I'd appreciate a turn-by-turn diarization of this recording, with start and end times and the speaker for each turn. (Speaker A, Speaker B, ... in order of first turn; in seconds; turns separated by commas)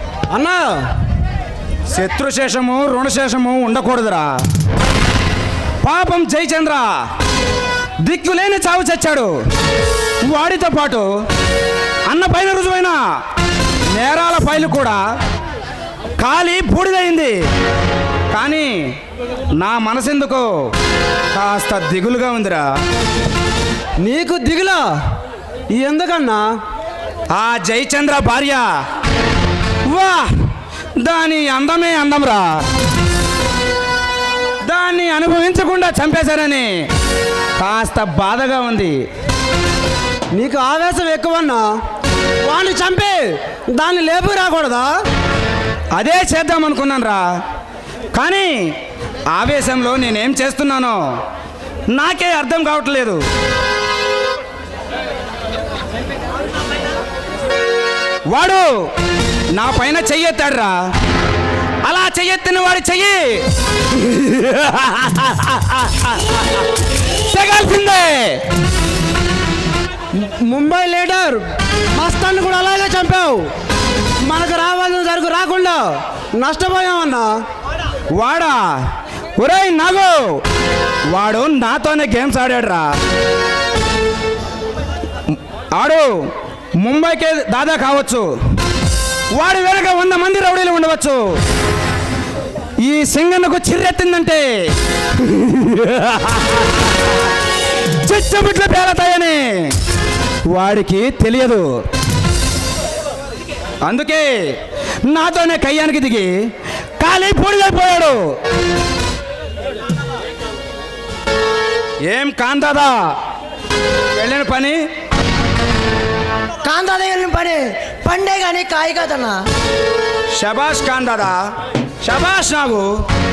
Speaker A: 0.3-0.8, Speaker B: 1.9-4.3, Speaker B: 5.8-6.9, Speaker B: 8.0-9.3, Speaker B: 10.2-11.1, Speaker B: 12.1-13.0, Speaker B: 13.9-15.0, Speaker B: 16.2-17.4, Speaker B: 18.3-18.7, Speaker B: 19.6-20.5, Speaker B: 21.3-22.7, Speaker A: 24.0-24.9, Speaker A: 25.7-26.5, Speaker B: 27.3-28.6, Speaker B: 29.9-30.3, Speaker B: 31.0-32.6, Speaker B: 34.6-36.7, Speaker B: 37.6-39.0, Speaker A: 40.3-41.7, Speaker A: 42.4-44.9, Speaker B: 45.9-47.2, Speaker B: 48.1-48.6, Speaker B: 49.3-51.0, Speaker B: 51.9-53.2, Speaker B: 58.3-58.7, Speaker B: 59.5-60.7, Speaker B: 61.8-63.4, Speaker B: 64.0-66.4, Speaker B: 67.3-68.4, Speaker A: 70.1-71.4, Speaker A: 72.0-73.5, Speaker A: 74.2-77.3, Speaker B: 78.1-78.6, Speaker B: 79.4-80.4, Speaker B: 81.1-82.9, Speaker B: 85.7-86.1, Speaker B: 86.8-88.3, Speaker B: 89.3-91.3, Speaker B: 92.8-94.5, Speaker B: 95.2-96.7, Speaker B: 98.0-99.7, Speaker B: 100.5-101.7, Speaker B: 103.8-104.3, Speaker B: 105.1-106.3, Speaker B: 107.0-108.2, Speaker B: 112.1-113.0, Speaker B: 114.2-114.8, Speaker C: 116.6-119.4, Speaker B: 120.3-121.4, Speaker B: 122.0-122.9